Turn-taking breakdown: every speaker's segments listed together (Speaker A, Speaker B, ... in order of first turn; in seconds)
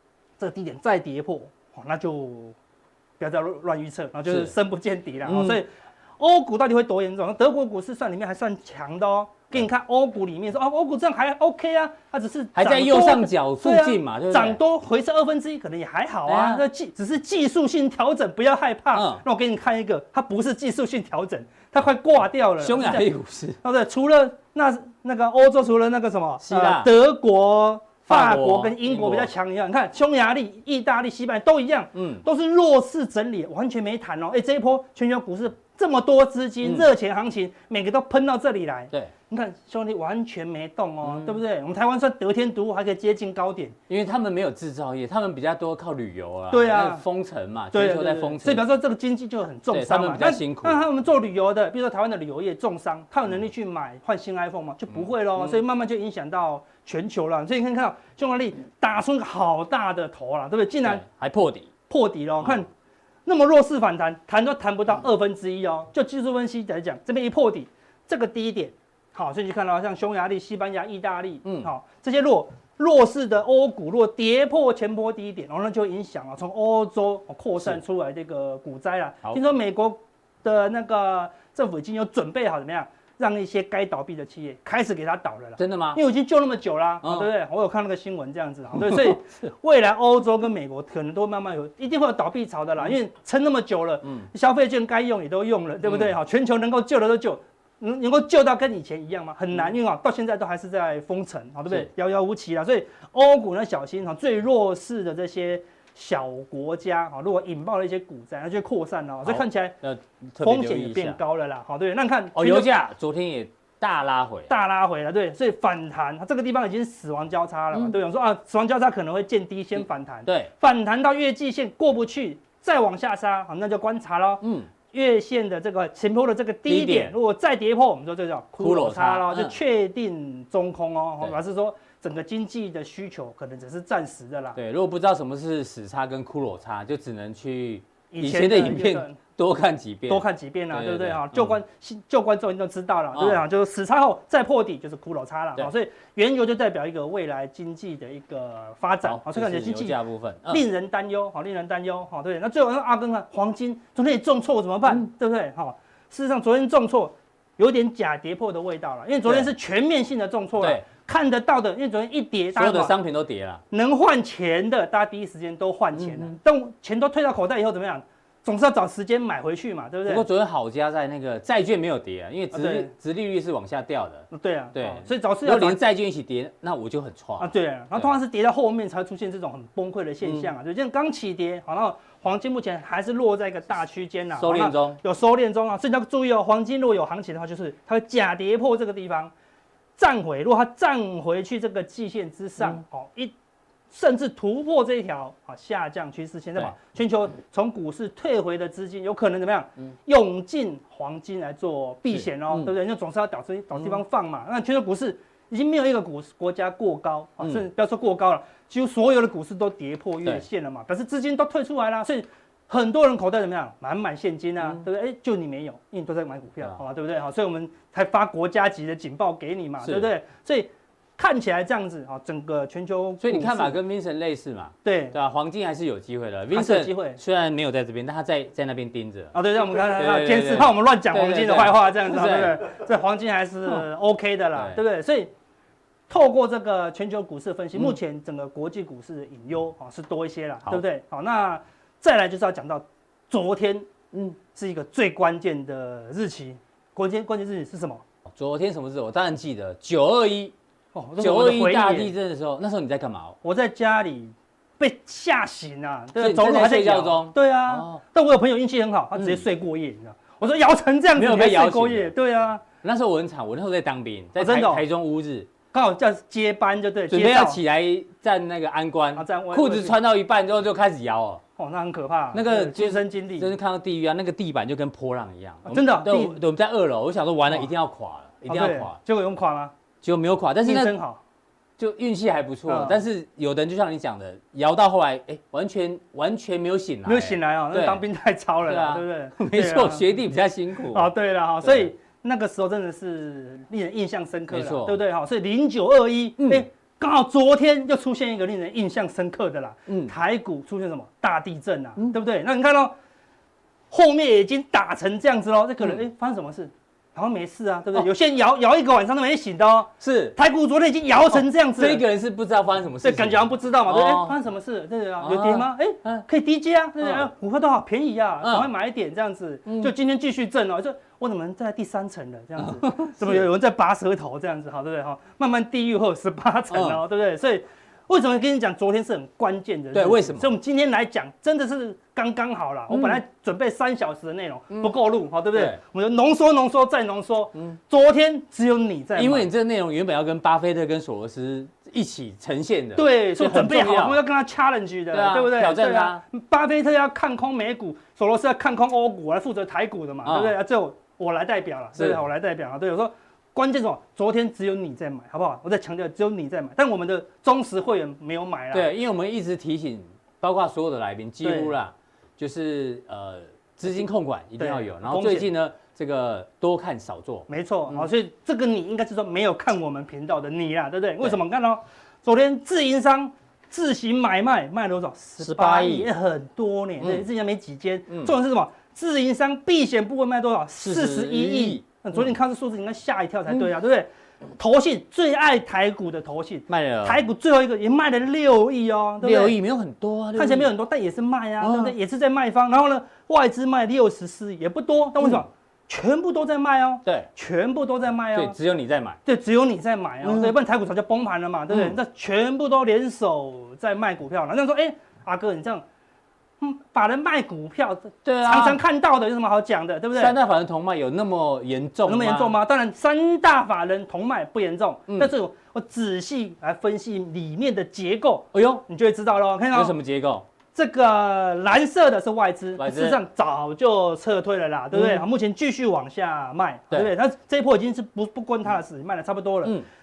Speaker A: 0.4-2.5, 3.2-23.1, 23.6-43.8, 46.5-47.0, 47.7-61.0, 61.9-62.7, 63.2-109.8, 110.4-112.7, 114.5-134.6, 138.1-139.2, 140.1-150.0, 150.5-162.9, 163.7-170.2, 172.5-172.9, 174.3-175.8, 177.4-189.3, 190.0-193.3, 193.9-223.8, 224.8-225.1, 226.5-227.2, 229.3-235.3, 236.1-248.0, 250.9-252.1, 253.4-262.6, 264.4-264.8, 265.7-267.6, 269.1-270.0, 271.6-273.5, 275.6-276.4, 278.5-279.7, 280.6-281.2, 282.7-283.0, 287.1-290.1, 290.9-302.9, 303.9-312.0, 313.0-339.5, 342.9-358.9, 361.4-361.8, 364.6-365.5, 367.5-389.6, 390.4-398.6, 399.2-405.9, 406.6-410.4, 412.1-419.9, 420.7-429.8
Speaker B: 5.3-5.6, 12.6-14.6, 16.3-16.6, 18.9-19.2, 22.6-23.6, 26.4-26.9, 28.1-29.3, 31.9-32.2, 36.6-36.9, 41.0-41.4, 43.9-48.6, 49.7-50.8, 55.0-55.6, 60.8-61.7, 85.6-86.0, 87.0-87.3, 88.8-89.2, 95.8-96.1, 109.2-111.2, 112.3-114.5, 120.2-120.5, 124.4-124.7, 126.7-127.1, 128.6-129.6, 134.6-141.6, 143.1-143.4, 149.0-150.6, 159.2-159.5, 162.6-163.6, 165.9-166.3, 170.1-178.1, 180.2-180.5, 184.4-185.0, 202.1-202.7, 219.8-220.1, 223.2-232.6, 234.6-234.8, 248.3-250.5, 251.2-253.4, 256.1-258.0, 261.1-262.1, 262.8-265.5, 267.1-271.4, 272.3-279.0, 280.0-280.9, 281.8-288.0, 288.6-291.1, 291.6-291.9, 294.5-295.0, 296.4-296.6, 299.9-300.1, 310.0-310.4, 311.3-314.4, 315.2-316.2, 317.0-317.3, 318.4-318.7, 319.7-319.9, 322.6-323.4, 326.7-327.0, 329.9-330.5, 332.9-333.2, 335.5-335.8, 339.1-344.2, 345.1-346.2, 350.2-350.6, 351.9-352.2, 358.7-368.1, 375.4-376.1, 380.8-382.2, 386.7-387.2, 389.2-390.7, 391.6-391.9, 398.3-399.2, 400.2-400.5, 401.7-401.9, 408.2-408.8, 410.1-412.6, 418.5-418.8, 419.7-420.4, 422.8-423.2, 424.9-425.2